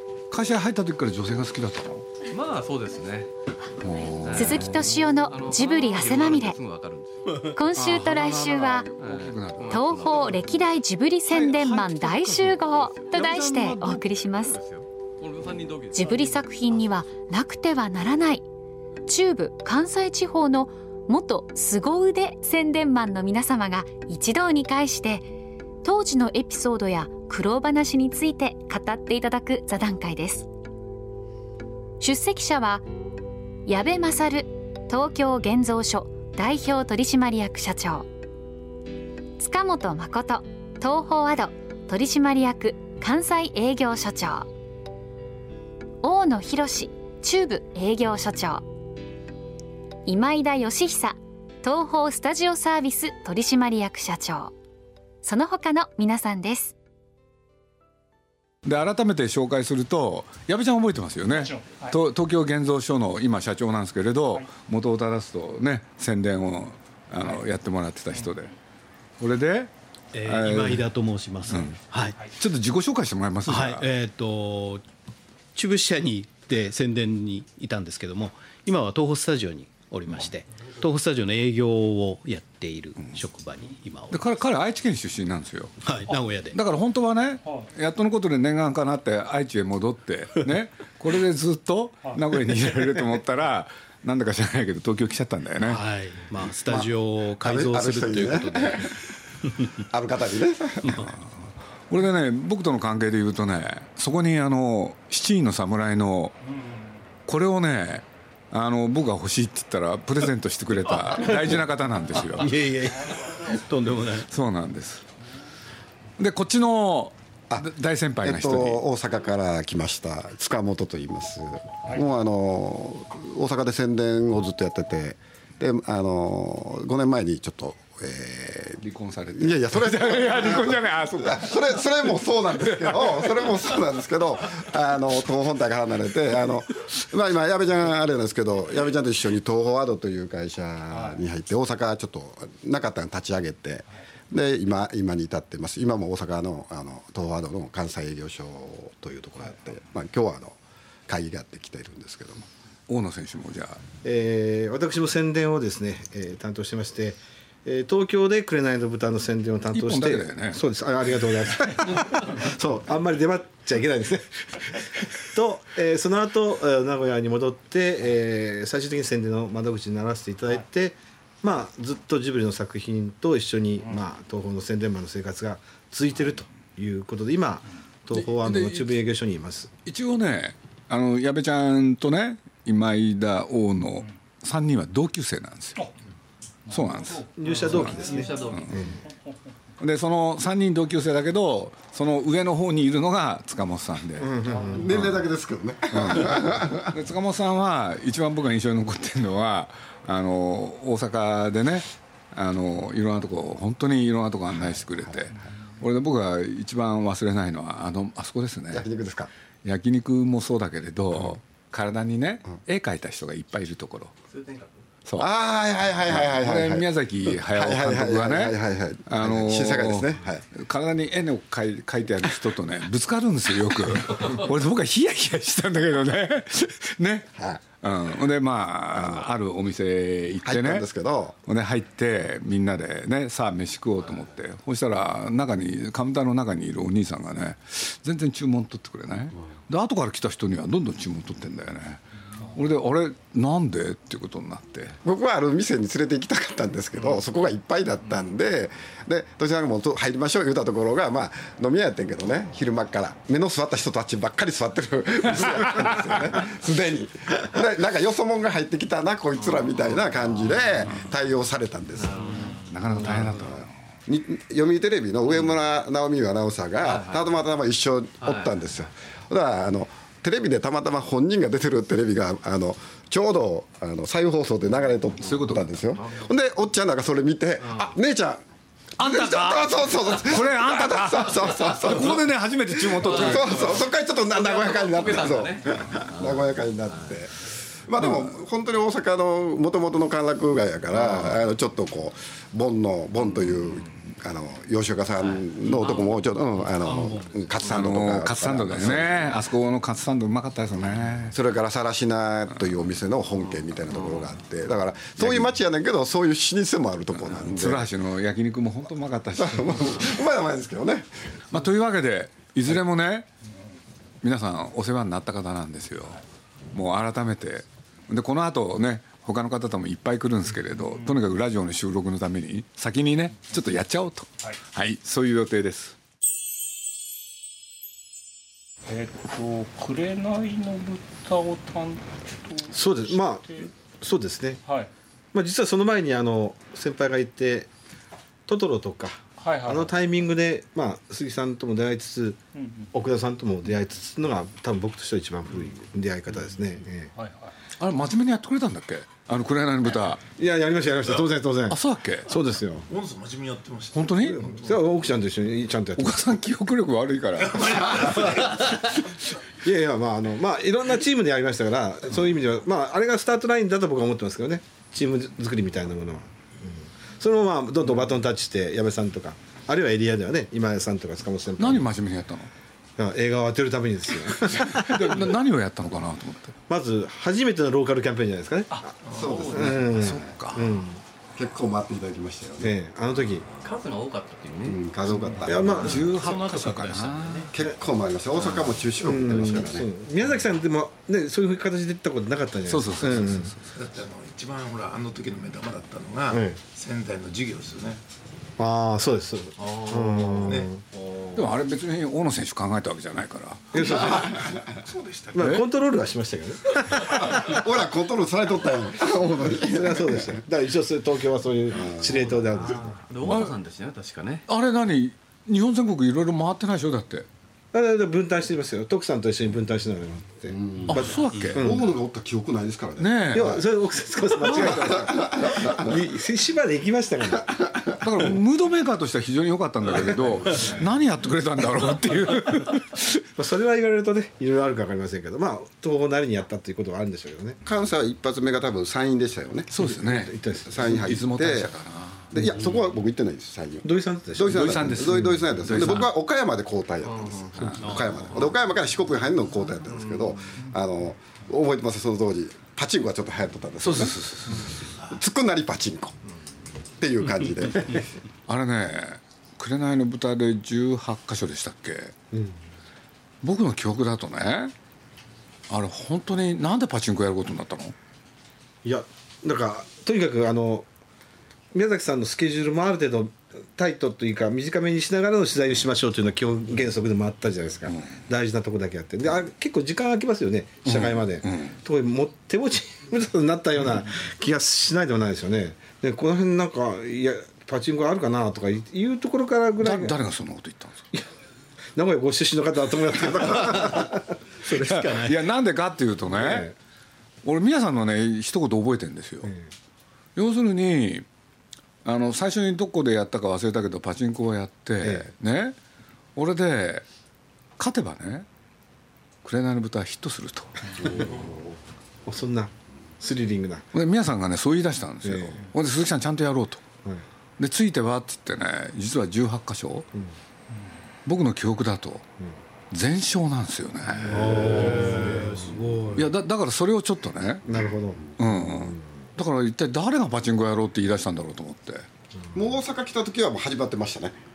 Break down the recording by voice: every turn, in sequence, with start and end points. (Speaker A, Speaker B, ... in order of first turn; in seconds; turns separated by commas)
Speaker A: 0.3-2.1, Speaker B: 2.3-3.3, Speaker A: 3.8-4.9, Speaker B: 4.2-7.5, Speaker C: 4.3-6.6, Speaker C: 7.4-8.9, Speaker A: 7.8-10.3, Speaker B: 9.0-10.7, Speaker C: 9.7-14.6, Speaker A: 11.3-14.0, Speaker B: 12.7-16.9, Speaker C: 15.9-18.4, Speaker C: 19.1-25.3, Speaker C: 25.8-30.5, Speaker C: 32.0-32.9, Speaker C: 33.6-38.1, Speaker C: 39.4-44.5, Speaker C: 46.0-48.6, Speaker C: 50.0-54.5, Speaker C: 55.2-56.7, Speaker A: 58.6-68.5, Speaker D: 61.3-61.9, Speaker A: 69.2-69.7, Speaker E: 70.1-72.2, Speaker A: 70.2-70.8, Speaker A: 71.5-71.8, Speaker A: 72.3-73.9, Speaker E: 73.5-74.8, Speaker E: 75.5-84.3, Speaker A: 84.1-85.9, Speaker E: 85.8-86.5, Speaker A: 86.5-95.8, Speaker E: 95.6-98.9, Speaker F: 96.7-98.9, Speaker F: 99.8-101.1, Speaker A: 101.0-101.3, Speaker A: 101.9-106.3, Speaker A: 107.3-112.5, Speaker E: 112.3-114.3, Speaker A: 114.2-115.0, Speaker A: 116.2-118.8, Speaker F: 118.2-128.8, Speaker A: 128.8-131.8, Speaker F: 129.3-150.6, Speaker A: 132.6-133.2, Speaker F: 151.1-152.5, Speaker A: 152.9-153.8, Speaker G: 154.0-179.7, Speaker A: 159.7-160.6, Speaker A: 178.1-178.9, Speaker A: 179.8-185.9, Speaker A: 186.7-188.7, Speaker D: 186.7-187.2, Speaker G: 187.3-189.0, Speaker B: 187.4-188.8, Speaker A: 189.8-194.3, Speaker G: 194.2-194.9, Speaker D: 194.4-194.7, Speaker F: 194.7-196.9, Speaker A: 195.9-208.8, Speaker F: 204.8-205.1, Speaker F: 208.7-209.3, Speaker A: 209.6-214.1, Speaker B: 214.3-214.8, Speaker F: 215.2-220.4, Speaker A: 216.1-230.9, Speaker F: 227.3-227.6, Speaker F: 228.9-229.3, Speaker F: 230.4-231.3, Speaker A: 231.4-242.0, Speaker A: 242.5-245.0, Speaker F: 245.0-262.3, Speaker A: 255.5-255.9, Speaker B: 259.6-260.0, Speaker B: 262.0-263.4, Speaker A: 262.7-263.7, Speaker F: 263.1-278.4, Speaker B: 266.8-267.4, Speaker B: 268.2-268.6, Speaker A: 275.2-275.9, Speaker B: 275.9-276.3, Speaker A: 279.0-283.8, Speaker F: 279.0-299.3, Speaker B: 283.2-287.1, Speaker A: 288.0-288.3, Speaker B: 295.6-296.1, Speaker E: 296.8-297.4, Speaker A: 297.6-301.4, Speaker F: 301.3-307.9, Speaker A: 307.2-310.0, Speaker F: 309.4-311.1, Speaker A: 311.5-313.3, Speaker A: 314.2-316.2, Speaker A: 316.7-325.9, Speaker D: 328.9-333.7, Speaker G: 332.7-334.6, Speaker D: 334.6-334.9, Speaker G: 335.3-337.7, Speaker G: 338.5-342.4, Speaker D: 339.4-339.9, Speaker D: 342.5-342.9, Speaker G: 342.9-347.1, Speaker D: 347.1-347.5, Speaker A: 347.8-350.2, Speaker G: 350.4-352.8, Speaker A: 351.7-352.3, Speaker H: 352.9-354.9, Speaker A: 353.9-354.4, Speaker G: 354.2-356.3, Speaker A: 355.9-358.0, Speaker H: 357.4-358.8, Speaker G: 359.6-371.9, Speaker A: 371.6-372.5, Speaker G: 373.0-375.2, Speaker A: 374.4-376.5, Speaker G: 376.7-381.0, Speaker H: 379.0-379.5, Speaker F: 379.1-379.8, Speaker A: 379.4-380.7, Speaker F: 381.3-382.7, Speaker G: 382.6-383.5, Speaker B: 383.6-384.8, Speaker F: 384.6-386.0, Speaker G: 385.4-386.2, Speaker A: 385.8-387.5, Speaker E: 385.9-387.3, Speaker F: 387.5-389.9, Speaker G: 389.0-393.5, Speaker A: 392.7-393.6, Speaker H: 393.7-398.0, Speaker G: 396.3-396.6, Speaker G: 398.6-400.8, Speaker B: 399.6-400.6, Speaker H: 400.4-400.7, Speaker A: 401.3-403.7, Speaker G: 403.7-404.4, Speaker H: 403.8-405.5, Speaker F: 404.1-404.6, Speaker G: 405.3-407.5, Speaker F: 407.0-410.4, Speaker G: 409.6-413.0, Speaker F: 411.8-412.1, Speaker B: 412.6-414.4, Speaker A: 413.2-413.5, Speaker A: 414.5-417.3, Speaker G: 417.7-421.9, Speaker F: 420.5-423.6, Speaker A: 420.9-421.6, Speaker A: 423.0-423.6, Speaker G: 423.3-427.5, Speaker A: 424.4-425.0, Speaker F: 424.4-426.0, Speaker A: 428.0-433.2, Speaker G: 433.4-437.6, Speaker F: 437.6-439.7, Speaker A: 439.7-442.3, Speaker G: 439.8-441.0, Speaker F: 440.6-441.7, Speaker F: 442.3-456.1, Speaker G: 443.8-445.9, Speaker A: 444.5-446.1, Speaker B: 447.1-448.4, Speaker A: 453.8-454.7, Speaker H: 454.6-455.2, Speaker F: 457.0-458.1, Speaker A: 458.5-462.1, Speaker G: 462.3-462.6, Speaker A: 463.4-464.7, Speaker A: 465.7-467.9, Speaker G: 468.8-470.9, Speaker G: 471.7-490.2, Speaker A: 480.8-481.8, Speaker A: 489.8-491.0, Speaker G: 491.9-494.4, Speaker E: 494.6-495.4, Speaker A: 494.7-496.7, Speaker G: 496.3-496.7, Speaker A: 497.4-499.5, Speaker G: 499.4-499.7, Speaker A: 500.4-501.2, Speaker A: 502.0-505.8, Speaker G: 505.0-505.3, Speaker A: 506.4-507.0, Speaker A: 507.8-508.5, Speaker A: 509.4-511.0, Speaker G: 511.0-511.6, Speaker G: 512.2-513.9, Speaker A: 513.9-516.8, Speaker G: 515.2-515.6, Speaker A: 517.6-520.1, Speaker A: 521.2-522.2, Speaker A: 522.9-524.6, Speaker G: 524.2-526.2, Speaker E: 524.3-526.2, Speaker A: 526.1-527.7, Speaker G: 527.6-528.2, Speaker A: 528.4-532.1, Speaker F: 532.5-534.4